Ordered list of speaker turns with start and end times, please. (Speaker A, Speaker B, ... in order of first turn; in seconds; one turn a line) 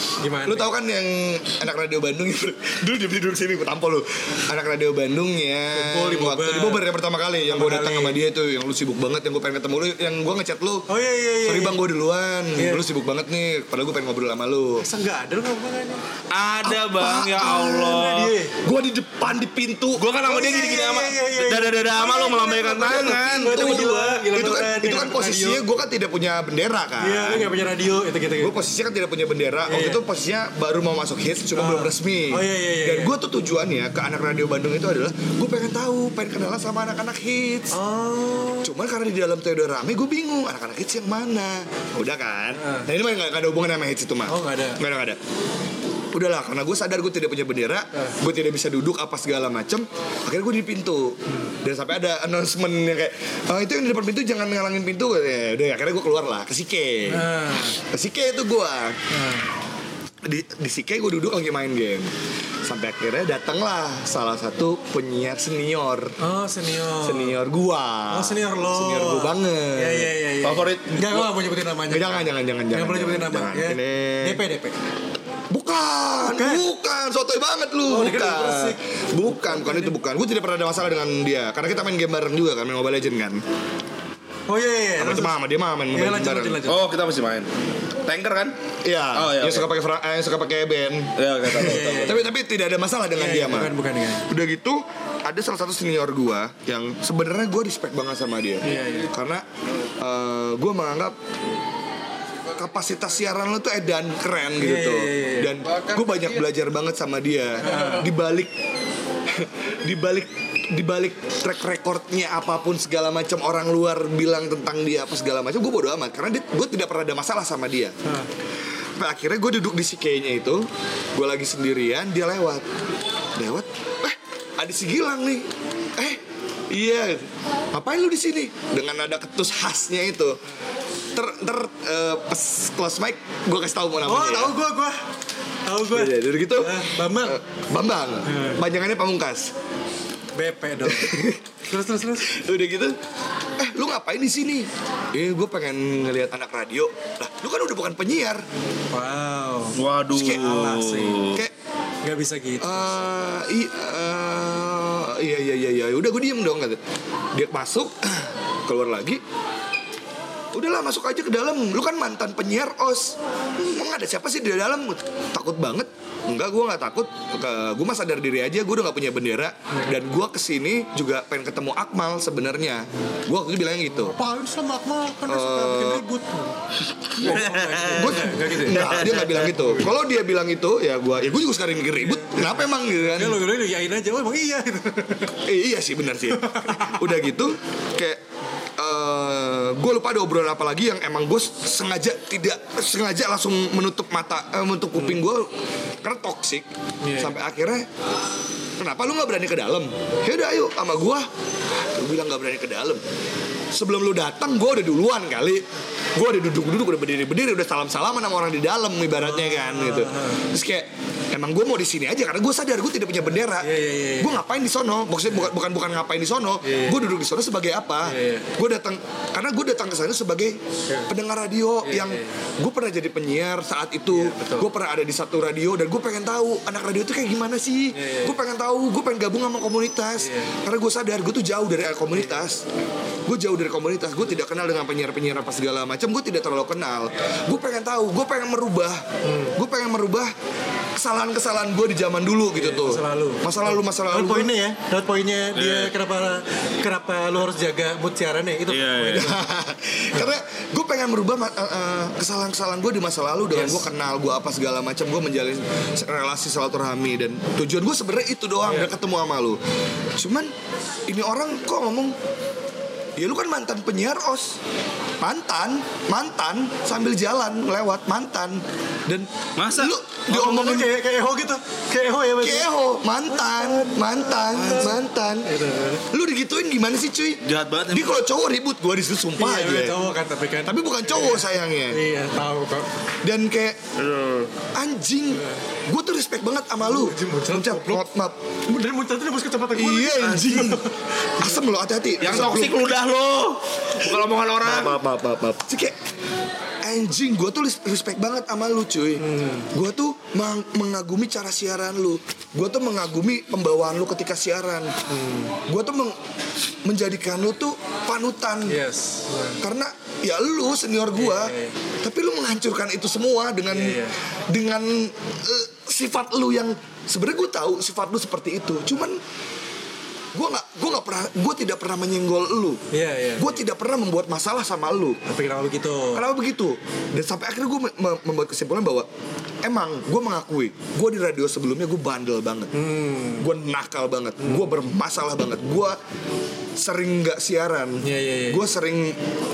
Speaker A: 0.2-0.7
Speaker B: 0.4-10.9
Speaker A: 5.7-6.8
Speaker A: 7.5-8.2
Speaker A: 10.9-11.8
Speaker B: 11.4-14.8
Speaker A: 12.6-12.8
Speaker A: 14.8-16.0
Speaker C: 16.3-18.4
Speaker B: 16.6-18.0
Speaker A: 17.4-18.6
Speaker B: 18.6-20.1
Speaker C: 20.0-24.2
Speaker A: 20.2-25.6
Speaker B: 22.7-27.5
Speaker A: 27.0-28.6
Speaker B: 28.4-37.8
Speaker A: 29.7-30.0
Speaker A: 31.5-33.2
Speaker A: 37.7-38.7
Speaker B: 38.6-45.2
Speaker A: 42.5-42.9
Speaker A: 44.3-44.8
Speaker B: 46.1-59.0
Speaker A: 57.1-57.8
Speaker A: 59.1-59.4
Speaker B: 60.2-62.1
Speaker B: 62.6-66.2
Speaker A: 66.2-67.4
Speaker B: 67.0-70.1
Speaker A: 68.1-74.8
Speaker C: 70.4-71.3
Speaker B: 71.9-74.4
Speaker B: 75.5-83.4
Speaker A: 76.2-76.6
Speaker A: 77.9-79.9
Speaker A: 84.5-85.4
Speaker B: 85.0-86.6
Speaker A: 85.9-86.8
Speaker C: 86.6-87.5
Speaker C: 88.0-88.5
Speaker B: 88.8-93.7
Speaker C: 89.1-89.7
Speaker C: 91.2-92.2
Speaker A: 91.5-92.3
Speaker A: 93.2-94.3
Speaker B: 94.3-99.4
Speaker A: 98.6-99.1
Speaker B: 100.0-101.2
Speaker B: 102.5-108.5
Speaker A: 104.6-105.5
Speaker A: 107.6-108.1
Speaker B: 109.3-118.0
Speaker B: 119.0-122.7
Speaker B: 123.4-130.4
Speaker B: 131.1-134.6
Speaker A: 134.0-135.0
Speaker A: 135.7-137.4
Speaker B: 135.9-139.5
Speaker A: 138.3-138.6
Speaker A: 140.4-142.3
Speaker B: 140.8-141.4
Speaker B: 142.2-143.0
Speaker B: 143.6-148.4
Speaker A: 148.9-151.3
Speaker C: 149.8-151.4
Speaker B: 150.1-150.4
Speaker A: 152.0-153.0
Speaker B: 152.6-156.8
Speaker B: 157.3-159.2
Speaker B: 160.5-174.1
Speaker A: 173.9-176.5
Speaker B: 175.3-176.0
Speaker A: 177.2-179.9
Speaker C: 177.3-179.3
Speaker B: 177.9-183.4
Speaker A: 181.9-185.4
Speaker B: 185.4-188.2
Speaker A: 186.3-187.1
Speaker B: 188.8-197.9
Speaker A: 197.0-197.4
Speaker B: 198.8-203.0
Speaker B: 203.7-205.6
Speaker B: 206.2-232.6
Speaker A: 209.2-210.4
Speaker A: 213.4-214.4
Speaker A: 216.6-217.1
Speaker A: 218.1-218.5
Speaker A: 221.8-222.3
Speaker A: 224.1-224.7
Speaker A: 227.9-228.4
Speaker A: 230.2-230.5
Speaker B: 233.3-239.0
Speaker A: 239.2-239.6
Speaker B: 239.6-240.3
Speaker B: 240.9-244.5
Speaker A: 242.6-249.4
Speaker C: 245.6-245.9
Speaker C: 248.7-249.3
Speaker B: 249.1-259.6
Speaker A: 253.5-253.8
Speaker A: 258.6-258.9
Speaker B: 260.2-260.5
Speaker B: 261.1-262.1
Speaker B: 263.2-264.6
Speaker B: 265.2-270.9
Speaker C: 269.6-269.9
Speaker A: 270.3-272.7
Speaker B: 272.4-275.5
Speaker A: 273.3-276.0
Speaker B: 276.1-279.9
Speaker C: 277.4-278.2
Speaker A: 279.4-282.9
Speaker B: 280.6-282.0
Speaker B: 283.2-283.8
Speaker C: 284.0-284.5
Speaker B: 284.7-288.4
Speaker A: 285.3-285.6
Speaker A: 286.8-288.1
Speaker A: 288.7-291.6
Speaker B: 289.7-290.8
Speaker B: 291.4-292.9
Speaker C: 292.2-295.0
Speaker B: 294.0-296.0
Speaker B: 296.8-304.9
Speaker A: 299.2-299.7
Speaker A: 305.1-305.6
Speaker B: 305.7-306.2
Speaker B: 306.9-308.8
Speaker A: 308.7-309.6
Speaker B: 309.6-319.2
Speaker A: 311.1-311.8
Speaker A: 313.7-314.2
Speaker B: 320.3-322.8
Speaker A: 322.9-323.6
Speaker B: 323.4-325.2
Speaker A: 325.3-326.3
Speaker B: 326.1-329.1
Speaker B: 329.6-332.7
Speaker A: 332.7-333.5
Speaker B: 333.4-336.0
Speaker A: 334.4-334.7
Speaker B: 336.8-339.2
Speaker A: 338.0-338.6